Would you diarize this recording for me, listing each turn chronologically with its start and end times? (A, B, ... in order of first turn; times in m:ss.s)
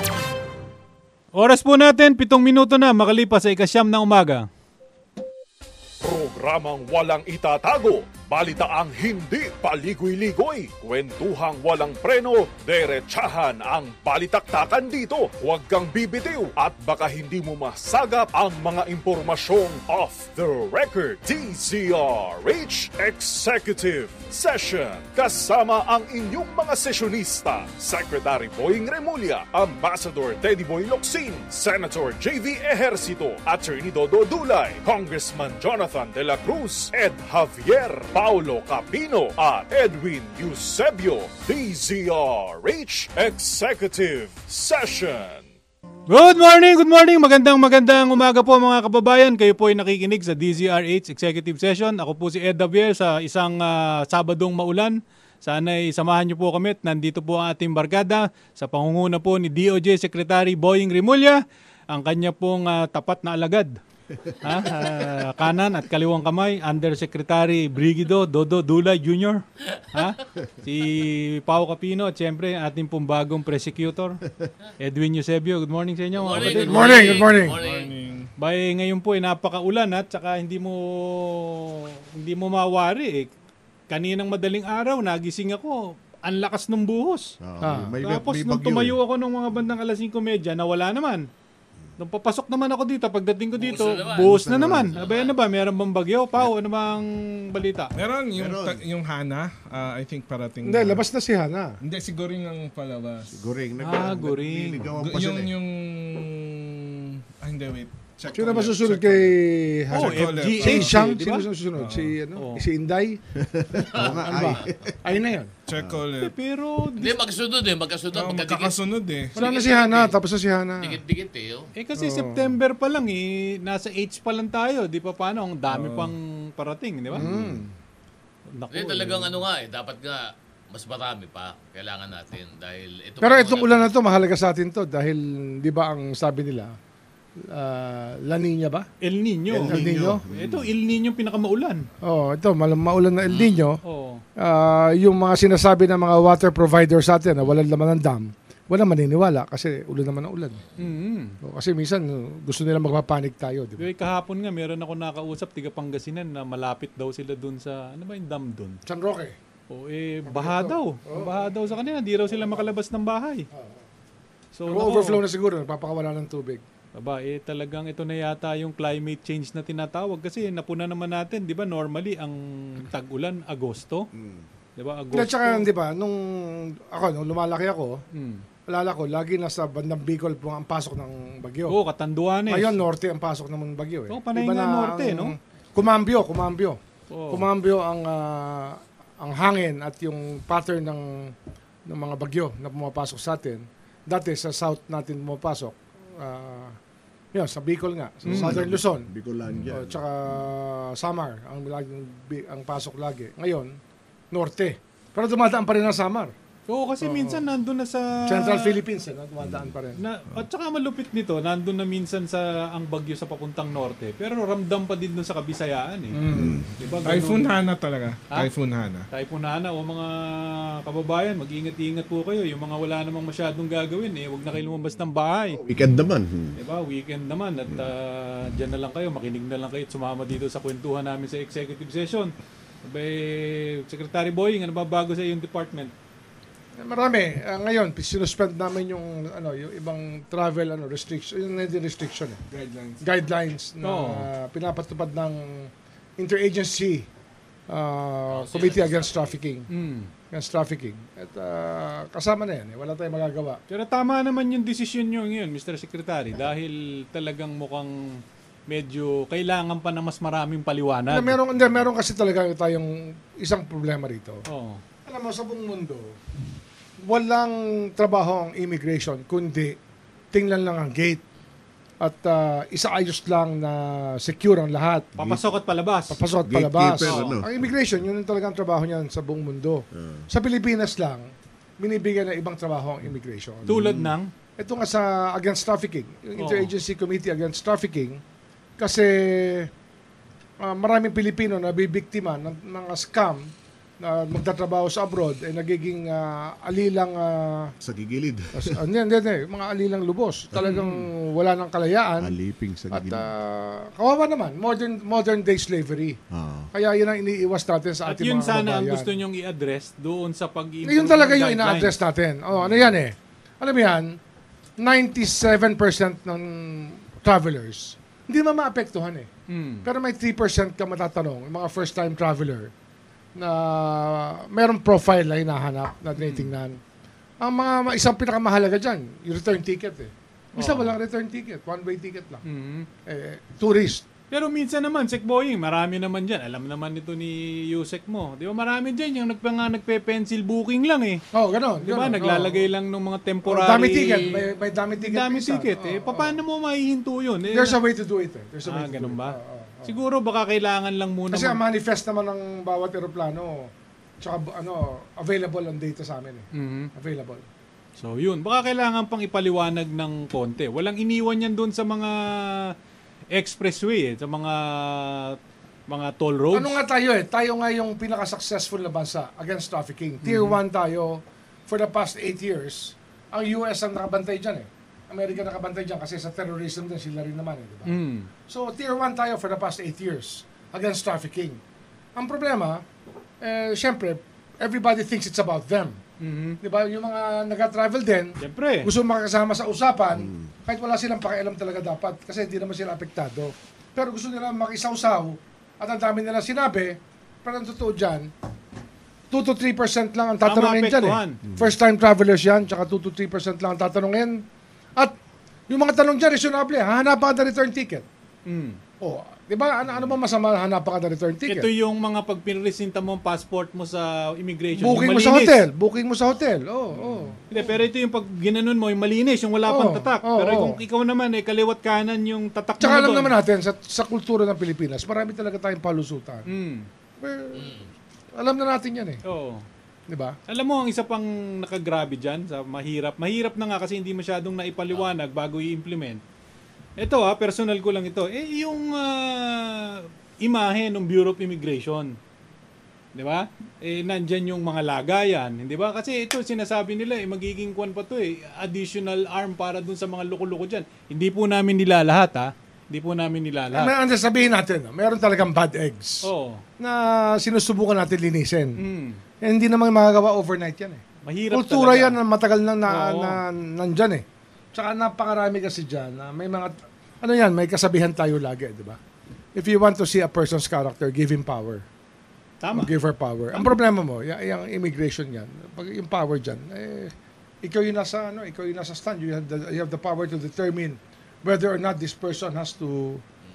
0:01.4-0:04.5 A
0:06.0-0:45.5 B
0:46.1-1:03.8 A
1:04.4-1:14.2 A
1:14.8-1:17.0 A
1:16.2-1:17.9 C
1:16.4-1:17.6 D
1:16.8-1:18.3 E
1:18.4-1:23.3 A
1:23.9-1:27.3 A
1:27.4-1:29.0 F
1:27.6-1:28.0 D
1:28.0-1:31.3 A
1:32.0-1:37.9 A
1:33.6-1:34.4 C
1:33.8-1:35.1 F
1:34.9-1:35.4 C
1:38.0-1:41.0 E
1:38.4-1:38.8 F
1:40.6-1:41.8 D
1:41.8-1:43.3 E
1:43.3-1:45.5 F
1:43.8-1:44.9 A
1:44.9-1:49.4 E
1:48.3-1:53.2 D
1:49.9-1:51.0 E
1:49.9-1:51.4 A
1:51.8-1:52.2 E
1:52.4-1:52.7 A
1:53.4-1:55.2 F
1:53.9-1:54.5 C
1:54.0-1:55.5 D
1:55.7-1:56.3 E
1:55.8-1:56.0 F
1:56.2-1:57.2 A
1:57.0-1:58.8 C
1:58.1-1:59.4 E
1:59.4-2:01.0 D
1:59.4-2:00.2 C
2:00.8-2:01.7 C
2:01.8-2:07.2 A
2:02.0-2:02.6 D
2:05.7-2:06.1 D
2:07.1-2:07.7 D
2:07.2-2:07.6 F
2:08.6-2:09.4 A
2:08.7-2:13.9 C
2:13.2-2:16.8 D
2:17.4-2:18.9 D
2:19.0-2:21.9 A
2:19.5-2:20.7 F
2:19.6-2:20.2 D
2:22.0-2:23.8 D
2:23.8-2:24.2 A
2:24.4-2:30.6 D
2:30.8-2:31.4 A
2:31.4-2:33.8 D
2:33.8-2:38.8 A
2:38.9-2:39.4 D
2:39.7-2:43.5 A
2:40.3-2:41.5 D
2:42.3-2:42.6 D
2:43.5-2:43.8 D
2:44.5-2:45.2 A
2:44.7-2:46.6 D
2:47.0-2:54.1 A
2:54.1-2:54.5 F
2:54.8-2:55.7 A
2:55.1-2:58.0 D
2:58.1-2:58.4 A
2:58.7-3:01.8 D
3:01.7-3:02.8 A
3:02.5-3:06.8 D
3:04.1-3:05.3 A
3:07.1-3:07.5 A
3:07.3-3:11.3 D
3:11.9-3:16.8 D
3:17.3-3:23.8 D
3:18.2-3:20.0 F
3:18.3-3:18.6 A
3:24.3-3:26.3 D
3:26.7-3:28.8 A
3:27.0-3:27.4 D
3:28.3-3:30.0 D
3:29.4-3:29.7 F
3:30.0-3:36.2 A
3:36.1-3:36.7 D
3:36.3-3:36.7 F
3:36.8-3:37.5 A
3:37.0-3:39.0 E
3:39.1-3:45.6 A
3:45.6-3:46.6 F
3:46.6-3:52.3 A
3:52.8-3:55.9 A
3:56.8-4:02.4 D
4:02.5-4:03.0 E
4:03.0-4:07.1 D
4:03.8-4:04.3 A
4:07.7-4:09.7 D
4:08.3-4:09.3 C
4:09.7-4:10.1 A
4:10.3-4:13.6 D
4:13.7-4:21.4 A
4:21.1-4:24.4 D
4:24.5-4:24.8 A
4:25.1-4:26.2 D
4:27.0-4:29.8 D
4:30.3-4:31.2 D
4:32.0-4:35.1 D
4:35.2-4:36.2 A
4:35.2-4:35.5 F
4:36.1-4:44.0 D
4:36.5-4:37.6 F
4:37.0-4:37.4 A
4:39.9-4:40.3 F
4:43.6-4:44.3 A
4:43.7-4:44.1 F
4:44.6-4:48.2 D
4:46.4-4:46.7 A
4:48.8-4:49.7 D
4:50.6-4:57.7 D
4:57.8-4:58.8 F
4:58.5-5:02.4 D
5:00.6-5:01.0 A
5:02.2-5:03.3 F
5:02.9-5:06.2 D
5:06.3-5:06.7 F
5:06.7-5:09.2 D
5:08.1-5:12.0 A
5:10.8-5:14.2 D
5:14.8-5:19.3 D
5:19.5-5:19.9 A
5:19.8-5:22.7 D
5:23.4-5:26.8 D
5:26.2-5:26.5 A
5:27.4-5:32.4 D
5:30.6-5:31.0 A
5:32.4-5:32.9 A
5:33.1-5:34.1 D
5:34.3-5:41.2 A
5:41.3-5:42.7 D
5:41.8-5:44.4 A
5:43.4-5:46.4 D
5:45.0-5:47.8 A
5:47.5-5:50.0 D
5:48.7-5:51.6 A
5:51.3-5:57.4 D
5:56.5-5:56.9 A
5:58.0-6:02.7 A
6:03.3-6:05.4 A
6:05.9-6:06.8 A
6:06.5-6:21.6 D
6:10.2-6:10.6 A
6:17.9-6:18.3 A
6:22.2-6:22.8 D
6:23.4-6:26.0 D
6:26.2-6:26.6 A
6:26.6-6:38.3 D
6:28.4-6:28.9 A
6:30.2-6:30.5 F
6:39.3-6:44.4 D
6:40.4-6:41.4 A
6:41.5-6:41.7 F
6:45.7-6:48.1 D
6:48.5-6:48.8 A
6:49.0-6:51.7 D
6:51.5-6:55.6 A
6:54.8-6:57.6 D
6:57.5-7:03.4 A
6:59.7-7:00.8 D
7:02.8-7:06.5 D
7:06.5-7:06.9 A
7:07.2-7:07.8 D
7:07.5-7:07.9 C
7:08.4-7:09.2 D
7:09.2-7:09.6 A
7:10.1-7:10.4 D
7:10.5-7:16.2 A
7:17.0-7:22.2 A
7:23.2-7:33.9 A
7:33.7-7:36.3 D
7:36.2-7:36.6 A
7:36.8-7:38.8 D
7:38.8-7:39.2 A
7:39.4-7:49.0 D
7:41.3-7:42.2 A
7:42.9-7:43.4 A
7:49.6-7:51.9 D
7:52.6-7:52.9 A
7:52.7-8:03.2 D